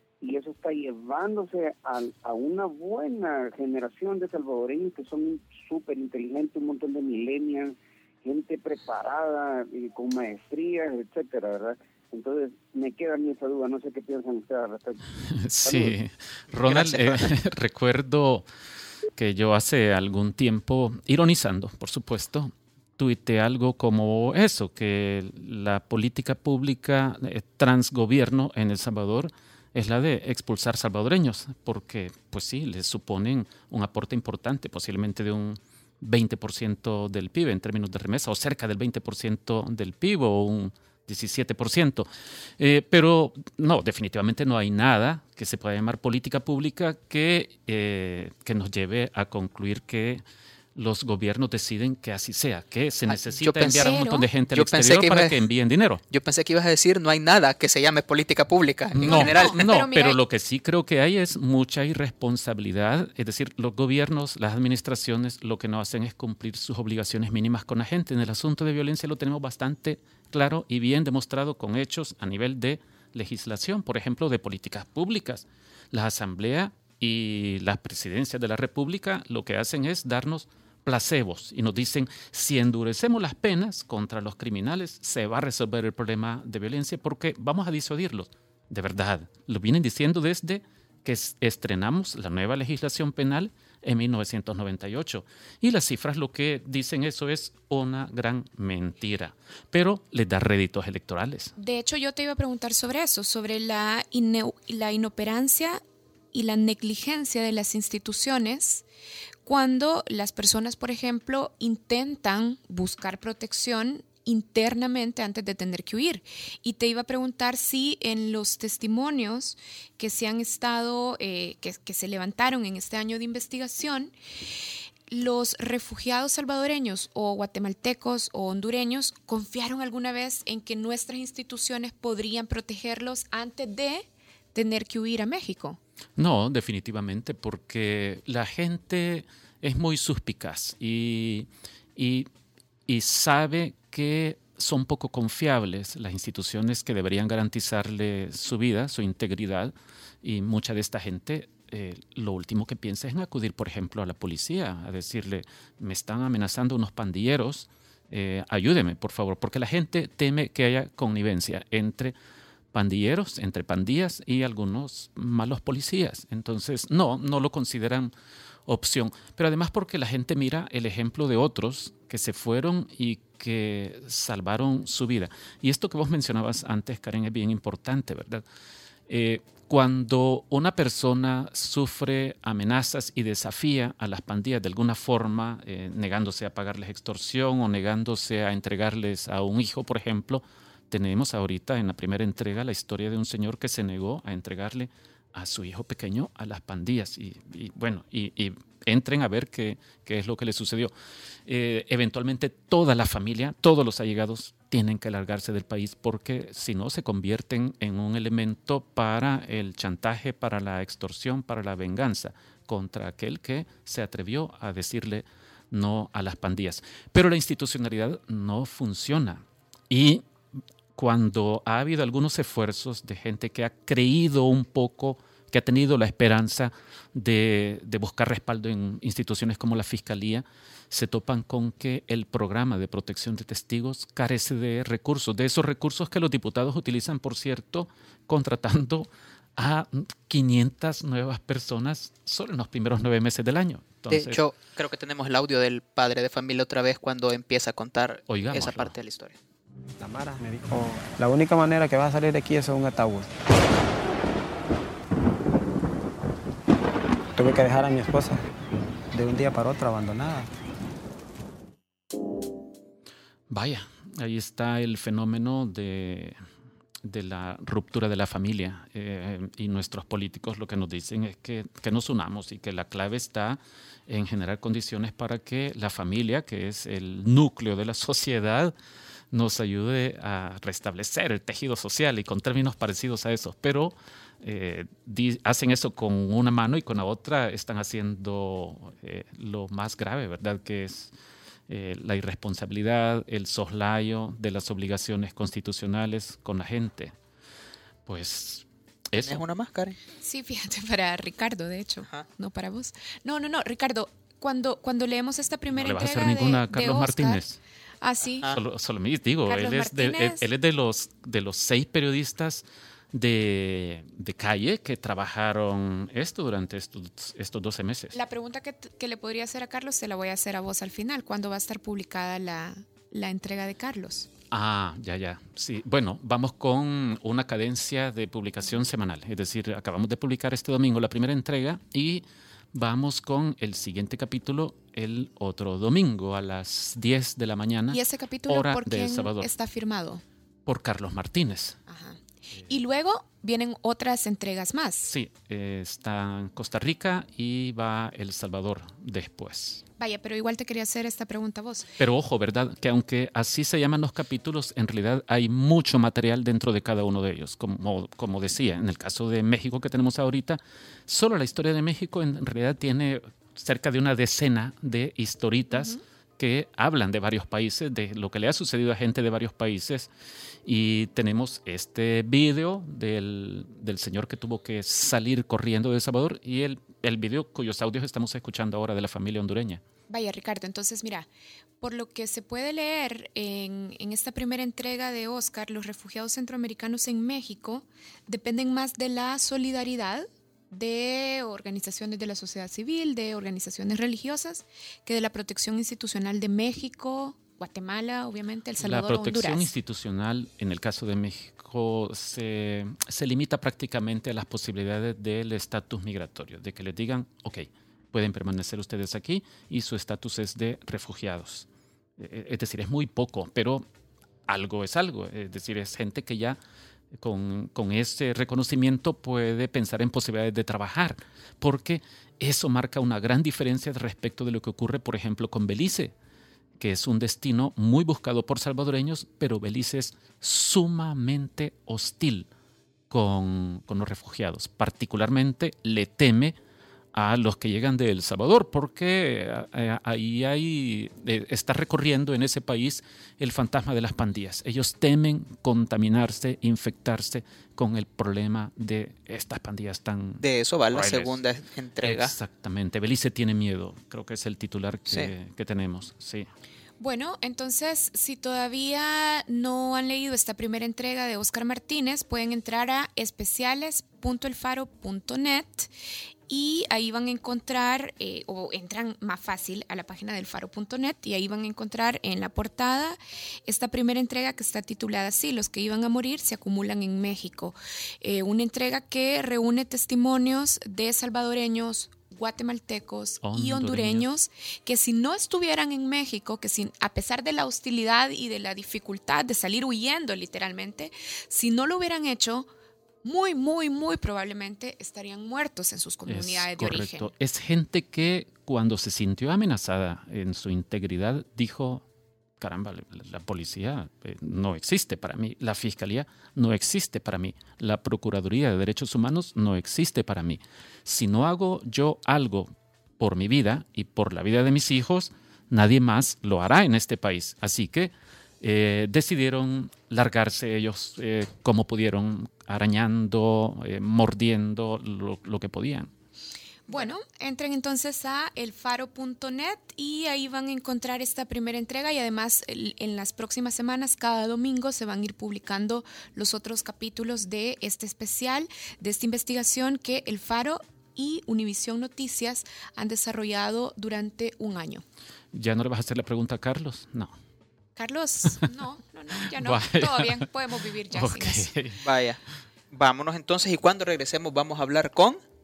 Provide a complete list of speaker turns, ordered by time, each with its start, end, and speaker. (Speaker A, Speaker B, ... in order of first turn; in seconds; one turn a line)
Speaker A: 0.2-15.0
Speaker B: 15.3-18.4
Speaker A: 15.6-15.9
Speaker C: 16.6-17.2
Speaker B: 19.1-42.1
Speaker B: 42.6-50.2
Speaker B: 50.7-56.0
Speaker C: 53.1-55.4
Speaker D: 53.7-54.3
Speaker C: 56.1-59.7
Speaker B: 58.9-101.5
Speaker D: 59.0-60.2
Speaker D: 101.6-105.8
Speaker D: 106.3-108.8
Speaker D: 109.4-124.1
Speaker D: 125.1-135.8
Speaker B: 136.2-142.3
Speaker B: 142.9-162.1
Speaker B: 162.7-168.1
Speaker B: 168.7-178.4
Speaker B: 179.1-200.9
Speaker B: 201.5-220.2
Speaker B: 220.9-244.4
Speaker C: 244.1-249.3
Speaker B: 248.3-248.9
Speaker E: 250.0-253.3
Speaker E: 257.3-258.4
Speaker E: 259.1-260.5
Speaker B: 263.5-266.4
Speaker B: 267.0-278.7
Speaker B: 279.3-291.1
Speaker B: 291.7-297.1
Speaker B: 298.1-299.4
Speaker C: 299.2-300.0
Speaker D: 300.2-307.4
Speaker B: 305.7-307.6
Speaker D: 308.0-308.5
Speaker B: 308.5-318.2
Speaker D: 309.5-310.4
Speaker D: 318.1-324.3
Speaker B: 324.5-339.5
Speaker D: 337.9-340.2
Speaker B: 340.6-341.8
Speaker D: 341.9-345.1
Speaker B: 345.1-349.8
Speaker D: 350.0-351.9
Speaker B: 352.0-370.1
Speaker B: 370.6-379.8
Speaker D: 380.1-381.3
Speaker D: 381.8-399.7
Speaker B: 398.8-411.6
Speaker B: 412.2-413.8
Speaker B: 414.5-416.6
Speaker B: 417.1-426.1
Speaker B: 426.8-432.5
Speaker B: 433.1-436.6
Speaker B: 437.1-451.4
Speaker C: 450.4-452.3
Speaker B: 452.0-456.5
Speaker D: 457.0-465.9
Speaker D: 466.5-492.7
Speaker B: 483.4-484.3
Speaker D: 493.2-497.3
Speaker B: 496.3-502.0
Speaker B: 502.6-526.1
Speaker D: 526.9-545.0
Speaker B: 545.5-547.3
Speaker D: 548.0-551.7
Speaker B: 549.6-550.5
Speaker B: 551.1-552.0
Speaker C: 552.0-552.4
Speaker C: 552.9-555.4